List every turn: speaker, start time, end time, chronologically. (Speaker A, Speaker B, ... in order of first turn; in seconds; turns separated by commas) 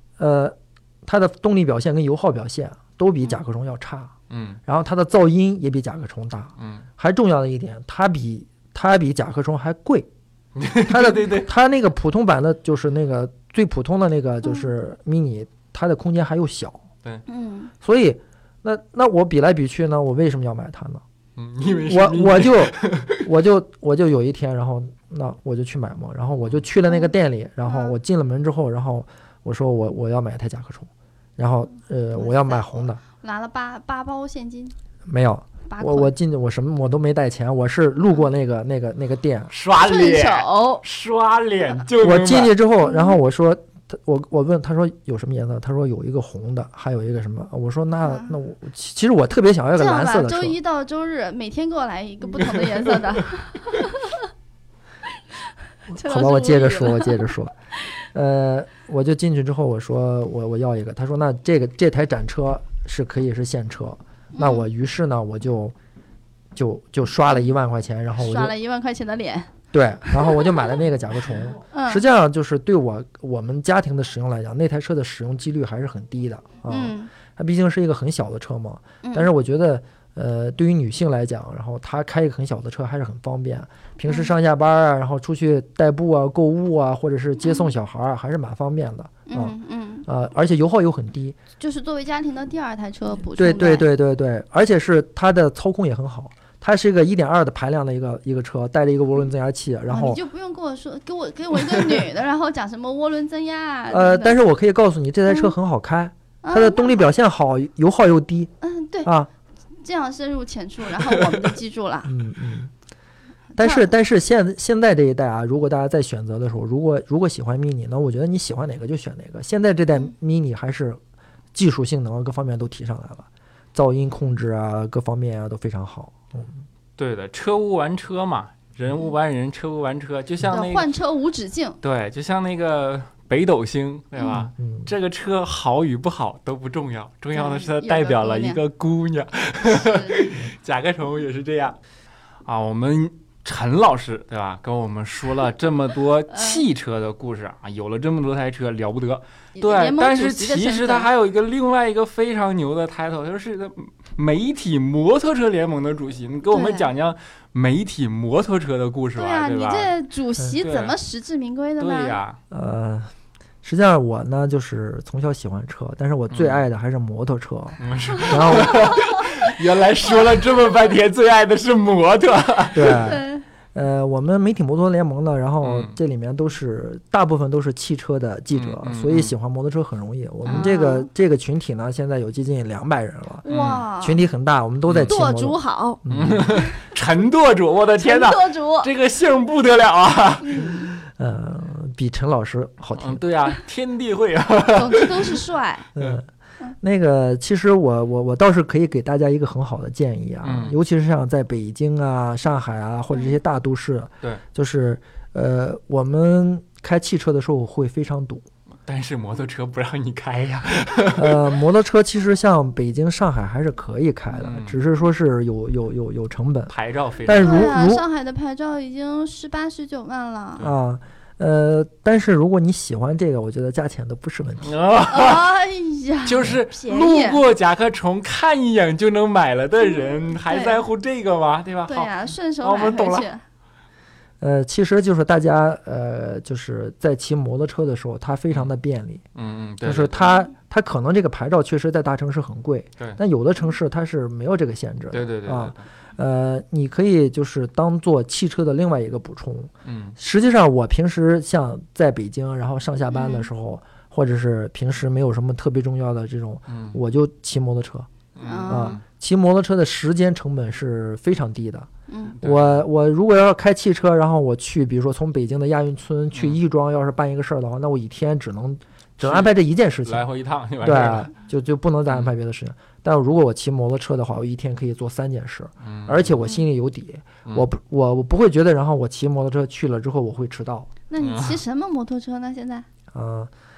Speaker A: 0.2-4.1, Speaker B: 4.3-4.6, Speaker A: 4.7-10.1, Speaker B: 6.6-6.8, Speaker B: 10.5-11.5, Speaker A: 10.9-16.8, Speaker C: 14.4-14.7, Speaker C: 17.3-17.7, Speaker A: 17.8-21.0, Speaker B: 21.4-23.2, Speaker A: 21.9-33.0, Speaker C: 26.9-27.1, Speaker C: 27.6-27.9, Speaker C: 32.1-34.7, Speaker A: 35.1-39.5, Speaker C: 35.7-36.1, Speaker B: 39.5-42.5, Speaker C: 39.8-40.8, Speaker A: 42.0-50.6, Speaker C: 42.8-43.2, Speaker C: 48.0-48.4, Speaker C: 49.7-54.3, Speaker C: 55.9-57.3, Speaker A: 55.9-57.5, Speaker A: 58.1-65.7, Speaker C: 64.3-64.7, Speaker A: 66.5-68.5, Speaker C: 68.2-70.8, Speaker A: 69.7-91.4, Speaker C: 71.7-72.0, Speaker C: 76.7-77.1, Speaker C: 79.0-79.3, Speaker C: 84.1-84.3, Speaker C: 87.4-87.7, Speaker C: 89.2-90.0, Speaker C: 91.6-93.9, Speaker A: 93.3-100.2, Speaker C: 99.9-104.4, Speaker A: 103.9-108.5, Speaker C: 105.3-105.5, Speaker C: 106.4-107.0, Speaker C: 108.6-109.1, Speaker A: 109.0-109.3, Speaker C: 109.8-112.2, Speaker B: 111.1-111.5, Speaker A: 112.0-112.7, Speaker A: 113.5-121.0, Speaker C: 113.6-113.9, Speaker A: 121.5-126.6, Speaker B: 127.0-130.9, Speaker C: 130.5-131.8, Speaker B: 131.8-141.8, Speaker C: 134.2-134.4, Speaker A: 134.3-134.9, Speaker C: 137.3-138.6, Speaker C: 139.6-140.3, Speaker B: 142.4-159.9, Speaker C: 146.3-146.6, Speaker C: 149.6-151.1, Speaker C: 156.5-156.9, Speaker C: 159.2-162.2, Speaker B: 160.6-161.0, Speaker B: 161.8-162.4, Speaker A: 162.5-163.1, Speaker A: 163.6-168.8, Speaker B: 166.3-166.6, Speaker B: 167.8-173.1, Speaker A: 172.7-183.4, Speaker C: 172.9-173.4, Speaker B: 175.6-175.9, Speaker B: 178.5-179.3, Speaker C: 180.4-181.1, Speaker C: 183.4-184.2, Speaker B: 183.5-183.8, Speaker A: 184.0-186.6, Speaker B: 184.9-185.1, Speaker C: 185.0-186.7, Speaker B: 186.1-190.7, Speaker C: 188.0-188.9, Speaker C: 190.4-190.9, Speaker A: 191.1-193.2, Speaker B: 193.0-195.4, Speaker C: 194.7-195.8, Speaker A: 195.9-196.2, Speaker A: 196.8-208.4, Speaker B: 200.4-200.8, Speaker C: 203.1-203.4, Speaker B: 208.8-211.5, Speaker A: 211.2-218.0, Speaker B: 214.3-214.8, Speaker B: 216.7-217.7, Speaker C: 217.3-220.6, Speaker A: 220.6-224.7, Speaker B: 224.6-225.5, Speaker C: 225.1-227.4, Speaker B: 226.2-233.3, Speaker C: 229.8-230.8, Speaker C: 231.9-233.4, Speaker A: 234.4-239.2, Speaker B: 239.3-240.3, Speaker A: 239.8-258.1, Speaker C: 240.2-240.5, Speaker B: 245.1-245.8, Speaker B: 249.8-250.2, Speaker C: 253.1-253.5, Speaker B: 256.7-257.0, Speaker B: 258.4-259.0, Speaker C: 258.4-259.0, Speaker A: 258.7-261.9, Speaker C: 262.1-262.4, Speaker B: 262.4-262.9, Speaker A: 262.4-270.2, Speaker B: 266.3-266.6, Speaker B: 269.2-271.3, Speaker A: 270.8-280.9, Speaker B: 275.8-276.3, Speaker C: 281.1-282.9, Speaker B: 281.2-281.6, Speaker A: 283.1-283.5